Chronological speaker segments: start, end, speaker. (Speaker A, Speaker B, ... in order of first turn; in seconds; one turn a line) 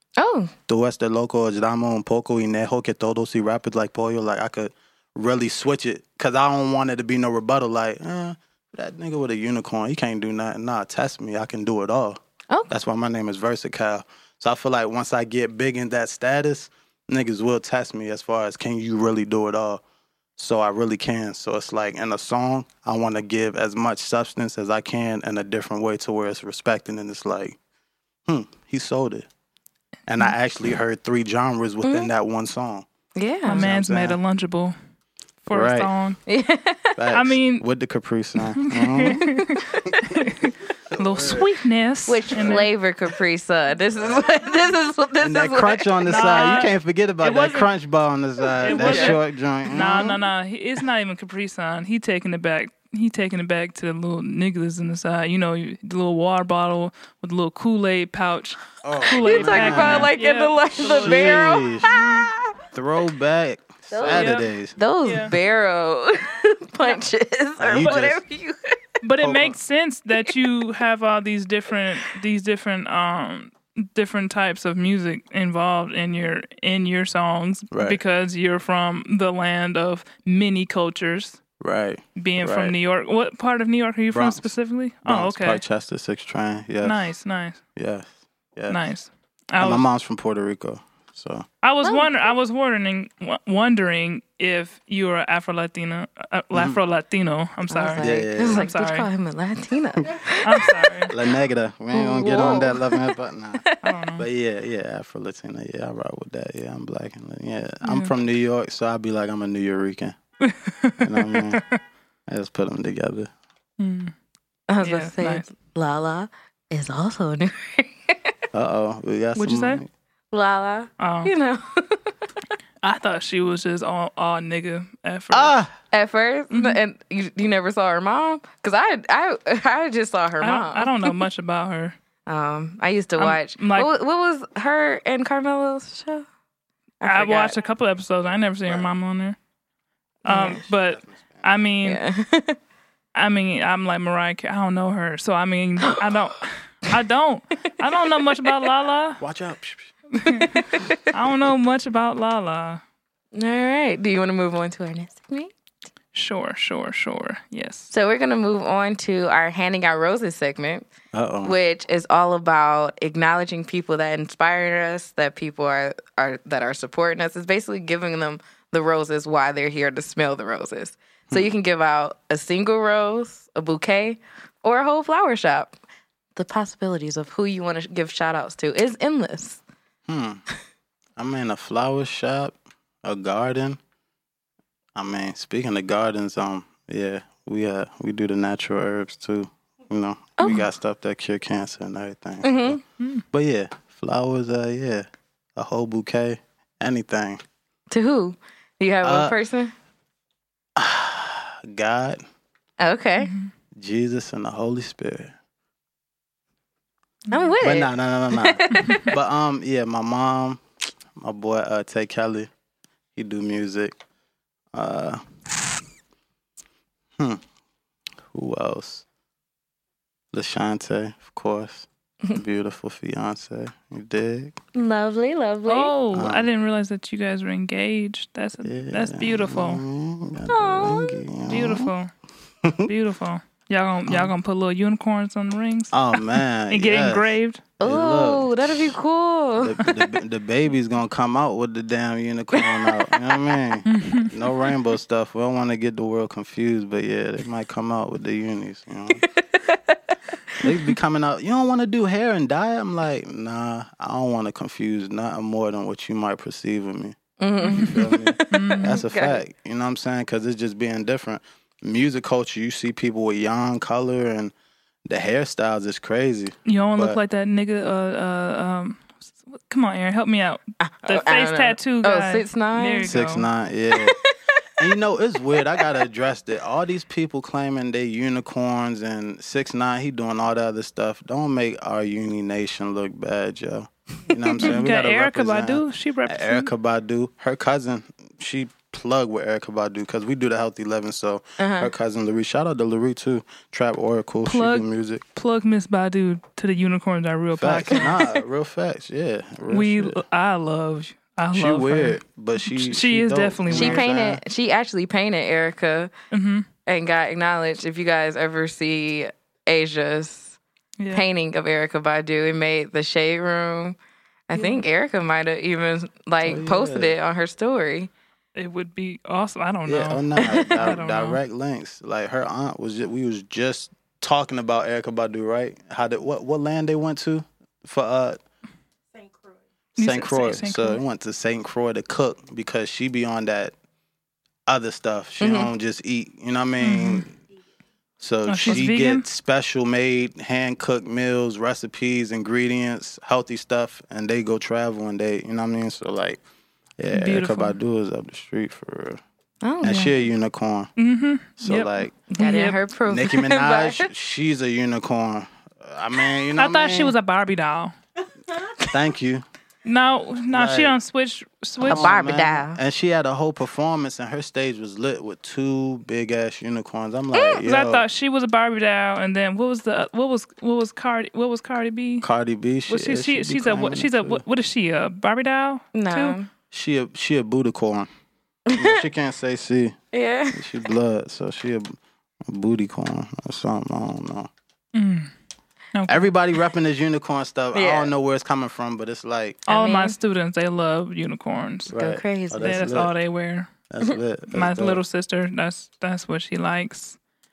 Speaker A: 0.2-0.5
Speaker B: 0.7-19.8
Speaker B: 20.4-27.6
Speaker B: 28.3-29.3
Speaker B: 30.1-32.9
Speaker A: 31.8-32.1
Speaker A: 33.2-33.6
Speaker C: 33.5-34.8
Speaker B: 33.6-34.2
Speaker C: 35.5-36.2
Speaker B: 35.5-35.9
Speaker A: 36.3-37.0
Speaker B: 37.0-39.3
Speaker C: 37.1-37.6
Speaker C: 38.6-42.7
Speaker A: 39.3-39.9
Speaker B: 40.9-41.5
Speaker A: 42.1-46.4
Speaker B: 42.4-42.6
Speaker B: 45.2-50.2
Speaker C: 46.1-47.7
Speaker C: 48.6-62.1
Speaker A: 48.6-49.2
Speaker B: 58.8-60.1
Speaker A: 59.1-62.5
Speaker B: 60.9-62.0
Speaker B: 62.7-64.8
Speaker A: 63.9-68.8
Speaker C: 64.0-64.5
Speaker C: 65.0-65.3
Speaker B: 67.6-68.2
Speaker C: 69.0-81.4
Speaker B: 69.2-69.6
Speaker B: 77.7-78.0
Speaker B: 81.6-82.8
Speaker C: 82.2-85.6
Speaker B: 84.1-84.5
Speaker B: 85.0-87.1
Speaker C: 86.8-87.6
Speaker B: 87.8-88.8
Speaker C: 88.7-89.8
Speaker B: 89.6-91.5
Speaker C: 91.6-99.1
Speaker A: 91.8-92.3
Speaker B: 96.5-96.8
Speaker A: 97.7-100.8
Speaker B: 98.0-98.7
Speaker C: 100.4-101.1
Speaker B: 101.1-103.6
Speaker A: 101.9-103.8
Speaker C: 102.2-102.6
Speaker C: 103.8-104.3
Speaker B: 104.2-110.2
Speaker C: 107.8-108.1
Speaker C: 110.4-111.8
Speaker B: 111.0-111.6
Speaker B: 112.3-113.3
Speaker C: 113.8-114.1
Speaker A: 114.7-118.3
Speaker C: 114.8-115.4
Speaker B: 118.5-119.9
Speaker C: 119.3-119.8
Speaker A: 120.3-122.2
Speaker C: 121.0-121.3
Speaker C: 122.8-125.6
Speaker B: 125.3-125.7
Speaker A: 125.9-131.2
Speaker C: 126.5-126.8
Speaker C: 130.4-132.0
Speaker A: 132.3-136.2
Speaker C: 133.2-133.9
Speaker A: 137.0-137.6
Speaker C: 137.0-139.4
Speaker C: 140.2-142.0
Speaker A: 140.3-140.6
Speaker B: 140.5-141.5
Speaker A: 141.8-142.6
Speaker C: 143.2-149.2
Speaker A: 147.9-148.3
Speaker B: 149.2-149.9
Speaker C: 150.2-152.8
Speaker A: 150.2-151.0
Speaker A: 153.3-155.5
Speaker C: 156.1-157.9
Speaker A: 157.9-160.9
Speaker B: 161.1-161.6
Speaker A: 161.4-175.8
Speaker A: 176.4-179.6
Speaker B: 180.1-180.4
Speaker B: 181.2-183.8
Speaker B: 184.9-192.8
Speaker A: 190.4-190.7
Speaker A: 192.4-192.8
Speaker B: 193.3-197.4
Speaker A: 197.9-199.7
Speaker B: 199.0-199.3
Speaker B: 200.8-202.2
Speaker A: 202.8-203.3
Speaker C: 203.2-203.5
Speaker B: 203.8-205.3
Speaker A: 207.3-209.1
Speaker B: 207.6-210.6
Speaker C: 208.7-209.1
Speaker B: 211.2-212.5
Speaker B: 213.2-213.9
Speaker B: 214.7-215.2
Speaker B: 218.3-219.1
Speaker B: 220.3-224.6
Speaker A: 224.8-225.9
Speaker C: 225.7-229.8
Speaker B: 226.1-226.5
Speaker B: 228.6-231.9
Speaker A: 230.5-231.2
Speaker C: 231.5-232.1
Speaker B: 232.6-232.9
Speaker C: 232.8-237.6
Speaker B: 234.1-234.3
Speaker B: 235.9-238.9
Speaker A: 237.8-239.9
Speaker B: 239.6-249.3
Speaker A: 242.6-243.6
Speaker C: 243.9-244.3
Speaker A: 249.6-250.0
Speaker B: 250.6-257.2
Speaker A: 257.4-259.4
Speaker C: 257.6-257.9
Speaker B: 257.7-264.5
Speaker C: 258.5-259.0
Speaker B: 265.1-267.2
Speaker C: 266.7-273.5
Speaker A: 270.8-273.1
Speaker B: 273.1-274.2
Speaker A: 273.9-274.6
Speaker B: 274.8-295.2
Speaker A: 284.3-284.7
Speaker C: 284.6-286.7
Speaker A: 291.6-291.9
Speaker C: 294.5-298.2
Speaker B: 297.6-300.2
Speaker A: 297.9-298.3
Speaker C: 299.7-304.1
Speaker B: 301.5-304.4
Speaker A: 303.7-306.1
Speaker C: 306.3-306.7
Speaker A: 306.9-310.6
Speaker A: 311.1-314.0
Speaker A: 314.5-318.1
Speaker C: 314.6-314.8
Speaker B: 316.4-317.2
Speaker C: 318.6-321.4
Speaker B: 319.9-328.4
Speaker A: 320.4-320.7
Speaker B: 330.0-333.7
Speaker C: 330.0-331.0
Speaker B: 334.7-337.4
Speaker A: 335.4-335.7
Speaker C: 336.8-337.3
Speaker B: 338.2-346.4
Speaker C: 338.5-339.2
Speaker B: 347.0-349.2
Speaker C: 347.1-347.8
Speaker A: 349.6-350.2
Speaker B: 349.8-350.9
Speaker C: 351.0-352.8
Speaker B: 351.6-352.1
Speaker A: 352.4-354.1
Speaker B: 353.1-357.1
Speaker C: 356.6-357.9
Speaker B: 358.8-359.4
Speaker C: 359.9-362.1
Speaker B: 360.5-360.9
Speaker B: 361.8-368.1
Speaker A: 361.8-362.8
Speaker C: 367.6-372.3
Speaker B: 372.2-374.4
Speaker C: 372.9-376.4
Speaker A: 375.9-376.5
Speaker B: 376.7-378.1
Speaker A: 378.7-379.0
Speaker B: 378.7-380.0
Speaker A: 380.1-380.8
Speaker B: 380.5-384.5
Speaker C: 384.9-385.3
Speaker C: 385.9-386.3
Speaker B: 386.1-389.6
Speaker A: 387.7-388.1
Speaker A: 389.7-390.1
Speaker C: 389.7-391.9
Speaker B: 391.9-393.1
Speaker A: 391.9-392.8
Speaker C: 392.6-393.7
Speaker B: 393.9-395.0
Speaker C: 394.5-397.2